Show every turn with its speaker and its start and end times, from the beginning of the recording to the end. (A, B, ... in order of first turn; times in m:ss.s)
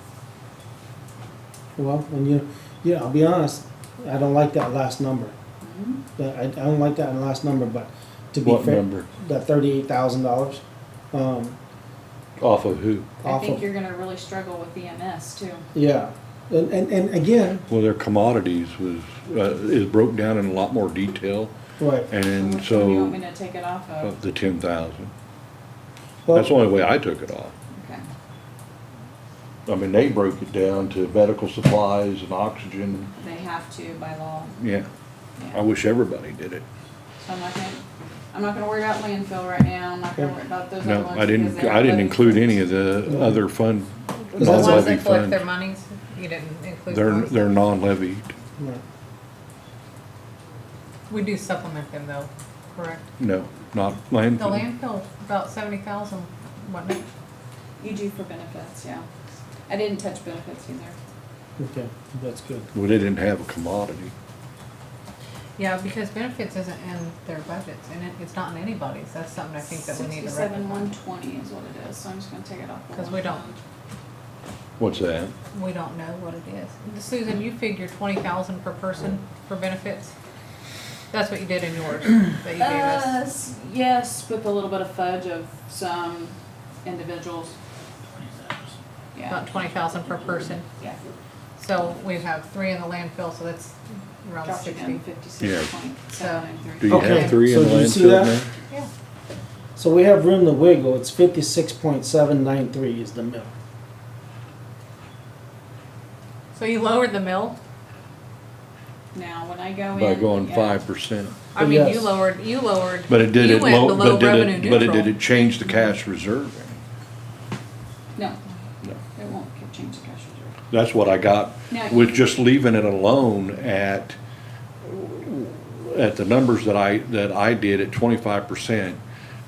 0:01.8-0:05.4 A
0:05.6-0:06.0 B
0:06.2-0:11.6 A
0:08.4-0:09.1 C
0:12.4-0:13.1 C
0:13.2-0:13.6 A
0:13.2-0:15.6 B
0:15.7-0:17.6 A
0:17.7-0:21.5 C
0:21.8-0:22.1 A
0:22.1-0:23.2 C
0:22.2-0:24.2 B
0:24.0-0:25.1 C
0:26.2-0:26.5 A
0:26.3-0:27.5 C
0:27.7-0:28.0 B
0:29.7-0:33.1 C
0:33.2-0:34.6 B
0:34.6-0:34.9 C
0:35.5-0:36.6 C
0:37.2-0:42.6 B
0:40.8-0:45.4 C
0:43.1-0:43.3 A
0:44.3-0:47.4 D
0:44.4-0:44.9 A
0:46.9-0:48.3 C
0:51.1-0:53.1 D
0:53.2-0:54.6 C
0:54.3-0:57.1 D
0:57.8-0:59.1 B
0:59.7-1:01.0 B
1:01.6-1:02.7 A
1:02.7-1:04.1 C
1:05.6-1:10.9 D
1:09.6-1:13.6 B
1:12.9-1:13.4 D
1:14.8-1:15.3 C
1:15.5-1:20.1 D
1:21.1-1:23.2 D
1:22.6-1:27.6 B
1:29.1-1:29.5 B
1:29.3-1:30.7 D
1:30.8-1:31.1 B
1:31.6-1:35.0 D
1:34.4-1:37.0 B
1:35.4-1:35.7 C
1:36.1-1:36.4 D
1:36.8-1:38.5 C
1:36.9-1:38.4 A
1:37.0-1:37.4 D
1:39.8-1:43.5 A
1:46.5-1:47.6 D
1:49.1-1:50.8 B
1:49.9-1:51.4 C
1:51.5-1:55.2 D
1:51.6-1:52.1 A
1:53.1-1:56.8 C
1:59.1-2:00.6 B
2:00.7-2:04.2 C
2:01.7-2:02.2 B
2:04.8-2:09.0 C